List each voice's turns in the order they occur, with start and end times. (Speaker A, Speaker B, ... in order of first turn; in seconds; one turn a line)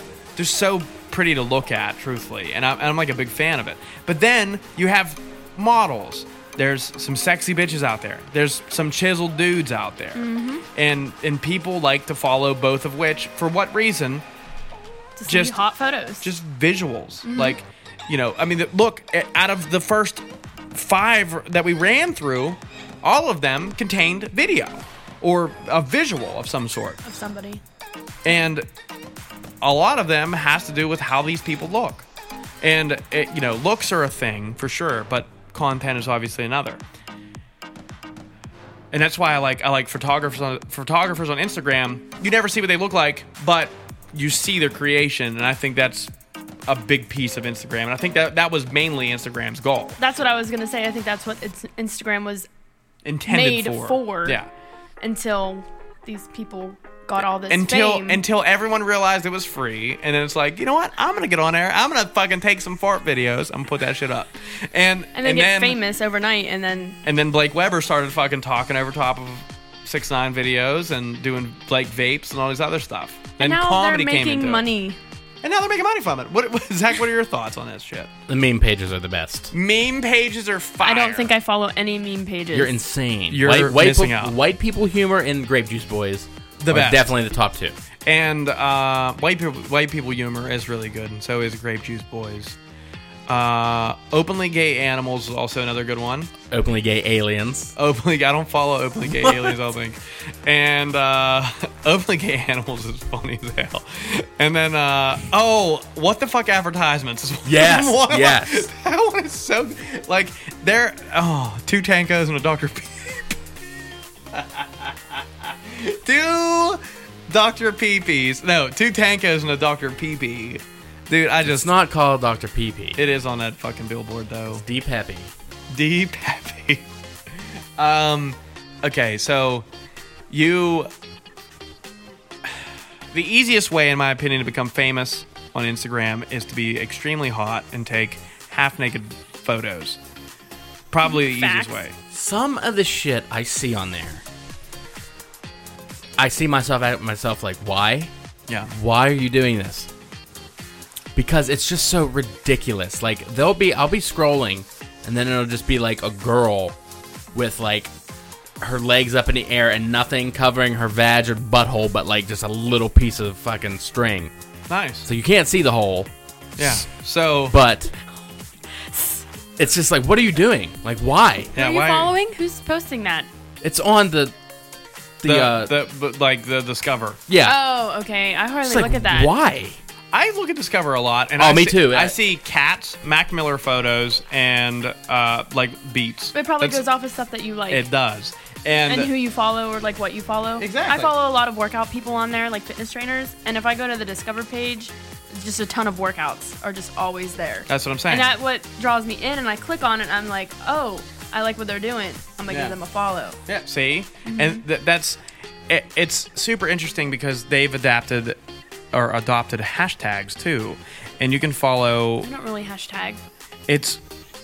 Speaker A: 0.4-14.2
Speaker B: 10.2-10.6
Speaker B: 15.2-16.3
Speaker A: 15.3-15.6
Speaker A: 16.2-27.0
Speaker B: 17.2-17.6
Speaker B: 27.0-27.6
Speaker A: 28.2-28.6
Speaker A: 29.6-32.1
Speaker A: 32.6-36.8
Speaker A: 38.9-46.1
Speaker A: 46.7-50.0
Speaker B: 50.0-52.5
Speaker A: 53.0-54.5
Speaker B: 53.3-54.4
Speaker B: 55.0-58.2
Speaker A: 57.5-65.8
Speaker B: 65.2-67.0
Speaker A: 67.0-74.7
Speaker B: 73.4-75.0
Speaker A: 75.4-78.1
Speaker C: 78.3-79.5
Speaker A: 79.5-81.3
Speaker B: 80.8-82.8
Speaker C: 82.5-87.8
Speaker A: 83.3-84.4
Speaker A: 86.6-87.1
Speaker A: 88.1-92.6
Speaker A: 93.3-96.3
Speaker C: 96.5-97.8
Speaker A: 97.8-113.4
Speaker C: 99.2-99.5
Speaker C: 107.5-108.7
Speaker A: 114.3-121.7
Speaker C: 121.4-123.0
Speaker A: 123.0-124.7
Speaker C: 124.6-125.3
Speaker A: 125.7-126.8
Speaker A: 127.8-129.7
Speaker A: 130.3-130.9
Speaker A: 133.1-140.0
Speaker A: 140.9-141.9
Speaker B: 141.0-141.8
Speaker C: 142.1-144.2
Speaker C: 146.2-148.1
Speaker C: 148.7-149.9
Speaker C: 151.2-156.8
Speaker C: 157.3-157.9
Speaker C: 158.6-164.3
Speaker A: 164.7-165.1
Speaker C: 165.1-166.8
Speaker A: 166.6-167.6
Speaker C: 167.5-167.9
Speaker B: 168.7-169.2
Speaker C: 169.6-171.5
Speaker A: 171.6-172.1
Speaker B: 171.6-173.3
Speaker C: 173.6-174.3
Speaker C: 175.2-175.8
Speaker A: 175.2-177.2
Speaker C: 177.3-177.6
Speaker B: 177.4-179.3
Speaker C: 178.6-179.8
Speaker A: 180.1-186.8
Speaker C: 181.4-182.2
Speaker B: 186.3-187.8
Speaker A: 187.7-189.1
Speaker B: 188.9-203.4
Speaker A: 190.6-191.1
Speaker A: 197.7-198.3
Speaker A: 202.5-202.8
Speaker A: 203.5-205.2
Speaker B: 204.2-204.6
Speaker A: 205.7-208.4
Speaker A: 208.9-212.3
Speaker B: 212.2-213.2
Speaker A: 213.7-214.0